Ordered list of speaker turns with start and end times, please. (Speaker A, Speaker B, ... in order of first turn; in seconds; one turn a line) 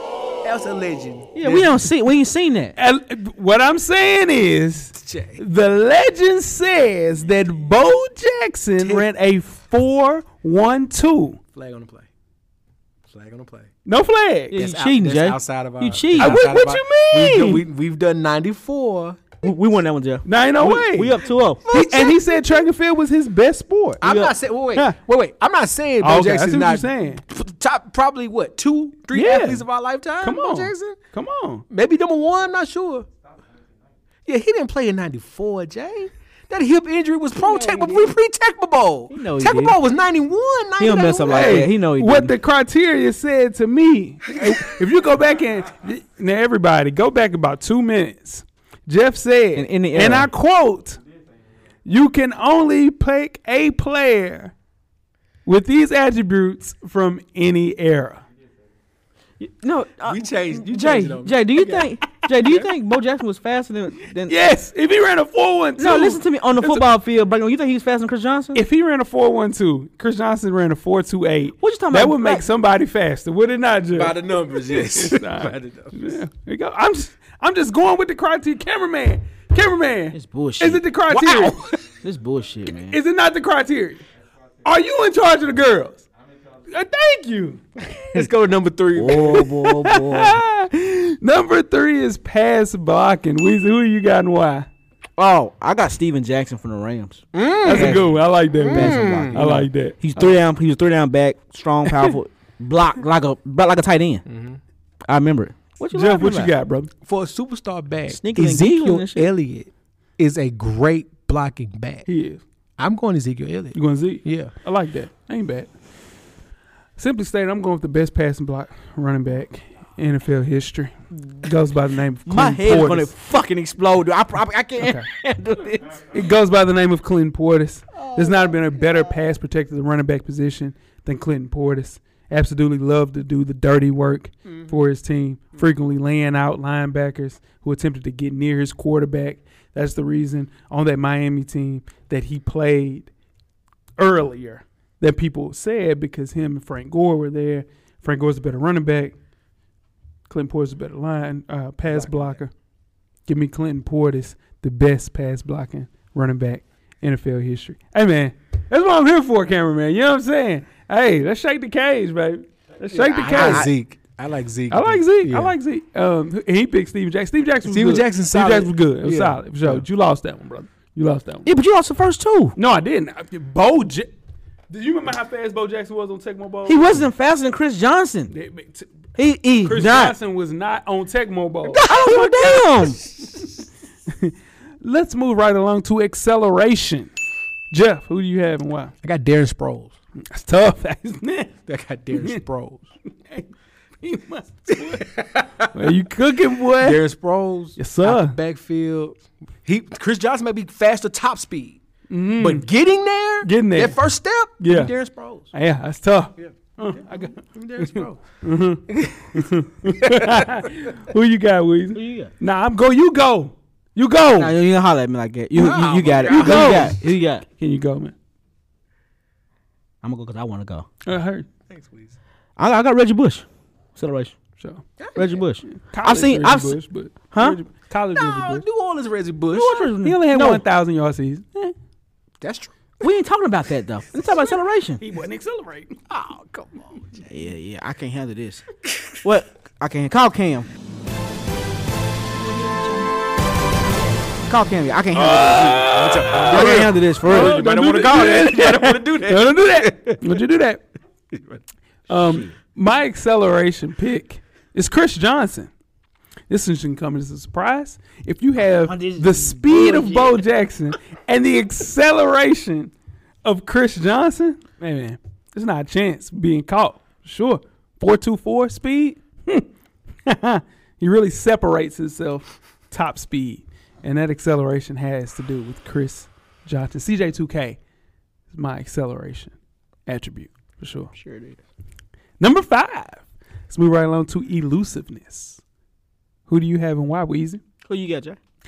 Speaker A: 0.4-1.9
Speaker B: 1.3-2.7
Speaker C: 2.8-11.4
Speaker A: 4.9-5.4
Speaker A: 8.8-9.1
Speaker A: 11.5-12.1
Speaker A: 13.1-13.7
Speaker C: 13.8-14.6
Speaker B: 14.5-16.4
Speaker A: 14.5-19.4
Speaker C: 16.2-17.6
Speaker B: 19.4-21.7
Speaker C: 20.2-24.1
Speaker A: 21.7-22.4
Speaker A: 24.0-31.0
Speaker B: 24.0-24.3
Speaker C: 26.0-27.2
Speaker C: 29.1-29.6
Speaker C: 30.2-31.6
Speaker A: 31.7-33.1
Speaker A: 34.2-41.7
Speaker B: 37.3-38.1
Speaker B: 39.1-39.8
Speaker B: 40.8-42.3
Speaker C: 41.3-51.0
Speaker B: 49.5-50.3
Speaker C: 51.8-54.5
Speaker C: 55.5-58.2
Speaker B: 59.4-64.3
Speaker A: 60.0-62.7
Speaker C: 64.3-66.8
Speaker B: 65.8-68.6
Speaker C: 68.5-81.6
Speaker B: 71.6-72.4
Speaker A: 73.9-76.2
Speaker B: 80.1-83.0
Speaker A: 81.1-81.6
Speaker C: 82.7-84.0
Speaker C: 84.6-86.0
Speaker C: 86.7-87.6
Speaker A: 88.1-89.5
Speaker B: 88.9-90.4
Speaker C: 89.4-94.7
Speaker B: 95.2-98.1
Speaker A: 97.3-99.4
Speaker C: 97.6-100.0
Speaker B: 98.6-104.2
Speaker A: 104.3-104.6
Speaker B: 105.1-106.5
Speaker C: 105.9-106.9
Speaker A: 107.0-112.1
Speaker B: 108.1-109.3
Speaker C: 112.0-112.4
Speaker A: 112.8-114.5
Speaker C: 113.7-115.7
Speaker C: 117.0-123.1
Speaker B: 122.2-126.1
Speaker C: 124.8-125.0
Speaker C: 126.0-143.1
Speaker A: 134.5-134.7
Speaker C: 144.0-149.2
Speaker C: 150.3-152.5
Speaker A: 151.9-152.3
Speaker C: 153.3-163.7
Speaker A: 162.9-165.5
Speaker B: 163.0-163.7
Speaker C: 164.7-171.5
Speaker A: 167.6-169.8
Speaker B: 171.4-172.6
Speaker C: 172.6-174.1
Speaker C: 174.7-177.0
Speaker B: 176.7-178.3
Speaker C: 178.3-178.9
Speaker B: 179.2-180.1
Speaker C: 179.6-182.6
Speaker A: 181.7-182.6
Speaker B: 181.8-183.0
Speaker C: 184.1-187.1
Speaker C: 187.7-188.9
Speaker A: 189.0-189.9
Speaker C: 190.3-191.5
Speaker A: 191.7-192.8
Speaker C: 192.1-192.4
Speaker C: 194.0-195.1
Speaker A: 194.7-195.8
Speaker C: 195.7-197.0
Speaker A: 196.8-201.8
Speaker C: 197.8-198.4
Speaker C: 202.1-202.7
Speaker A: 202.4-205.5
Speaker C: 203.4-204.0
Speaker C: 204.6-204.9
Speaker C: 205.5-214.5
Speaker A: 206.4-208.2
Speaker A: 208.8-210.7
Speaker B: 211.9-212.3
Speaker B: 214.3-217.4
Speaker A: 215.5-216.9
Speaker C: 216.3-217.0
Speaker C: 217.6-218.1
Speaker B: 220.0-220.8
Speaker C: 221.1-221.5
Speaker A: 221.7-222.2
Speaker B: 222.6-224.3
Speaker A: 225.0-225.4
Speaker B: 225.2-226.8
Speaker C: 225.7-228.6
Speaker B: 227.3-227.6
Speaker A: 228.1-229.9
Speaker B: 229.5-230.6
Speaker C: 230.0-231.7
Speaker A: 232.4-232.8
Speaker B: 233.0-235.0
Speaker C: 235.0-235.9
Speaker A: 236.1-237.5
Speaker B: 237.3-238.7
Speaker B: 239.2-240.7
Speaker B: 242.4-243.1
Speaker B: 244.5-248.0
Speaker C: 245.1-250.8
Speaker A: 245.4-250.3
Speaker A: 251.3-251.6
Speaker C: 252.1-255.7
Speaker B: 252.2-252.5
Speaker C: 256.5-262.9
Speaker B: 258.9-260.4
Speaker C: 263.4-269.7
Speaker C: 270.2-277.8
Speaker C: 278.5-279.5
Speaker C: 280.1-281.1
Speaker B: 281.1-281.6
Speaker C: 282.4-285.6
Speaker C: 286.5-287.6
Speaker B: 287.9-288.4